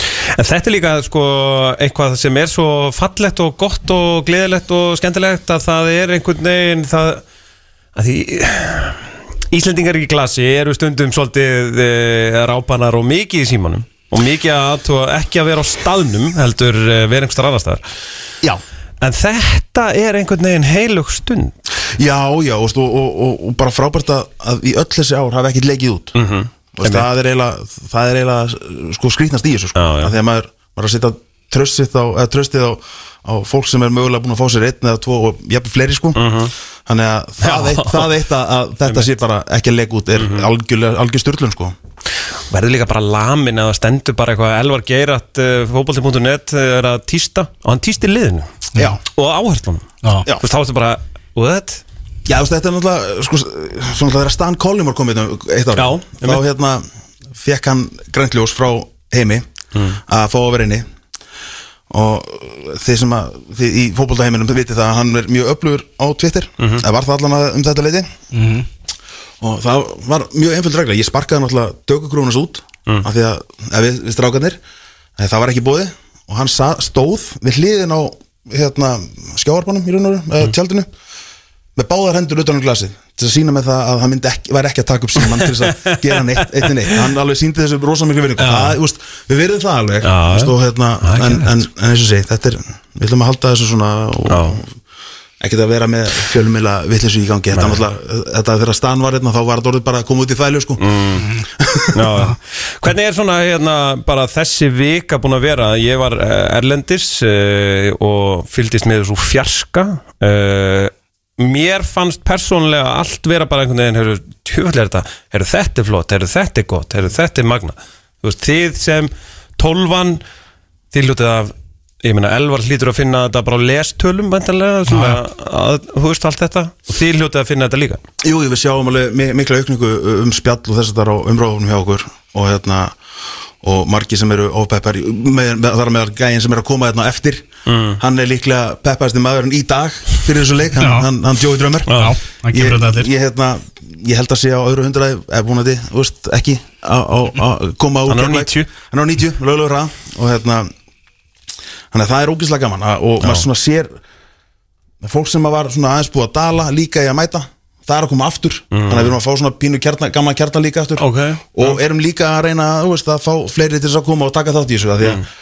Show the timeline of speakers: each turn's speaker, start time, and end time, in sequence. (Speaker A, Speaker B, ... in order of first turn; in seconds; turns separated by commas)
Speaker A: 0.2-7.2, Speaker A: 8.0-17.8, Speaker A: 19.0-21.6, Speaker B: 22.0-26.2, Speaker A: 26.2-27.1, Speaker B: 26.7-36.2, Speaker A: 29.8-30.1, Speaker A: 36.1-36.5, Speaker B: 36.9-41.8, Speaker A: 37.4-38.1, Speaker A: 38.9-39.1, Speaker A: 40.2-40.5, Speaker A: 42.5-48.5, Speaker B: 48.8-49.0, Speaker A: 49.1-51.8, Speaker B: 52.3-59.5, Speaker A: 55.8-56.4, Speaker B: 60.1-60.9, Speaker B: 61.9-68.1, Speaker A: 66.6-66.8, Speaker C: 68.3-68.7, Speaker B: 69.4-74.6, Speaker B: 75.2-80.9, Speaker B: 81.8-94.7, Speaker A: 85.3-86.6, Speaker A: 88.4-88.8, Speaker A: 90.0-91.6, Speaker A: 94.3-94.6, Speaker B: 95.4-100.8, Speaker A: 97.5-97.8, Speaker A: 100.8-101.3, Speaker C: 101.2-101.4, Speaker B: 101.6-102.0, Speaker A: 102.0-120.2, Speaker A: 120.9-128.0, Speaker C: 124.9-125.2, Speaker B: 128.2-133.0, Speaker B: 133.6-137.5, Speaker A: 137.7-138.0, Speaker B: 138.0-141.9, Speaker C: 140.8-141.1, Speaker A: 141.9-142.2, Speaker C: 141.9-143.1, Speaker B: 142.5-150.7, Speaker A: 148.1-148.7, Speaker B: 151.9-154.0, Speaker A: 153.2-153.5, Speaker B: 155.0-165.2, Speaker A: 158.7-159.2, Speaker A: 161.0-161.8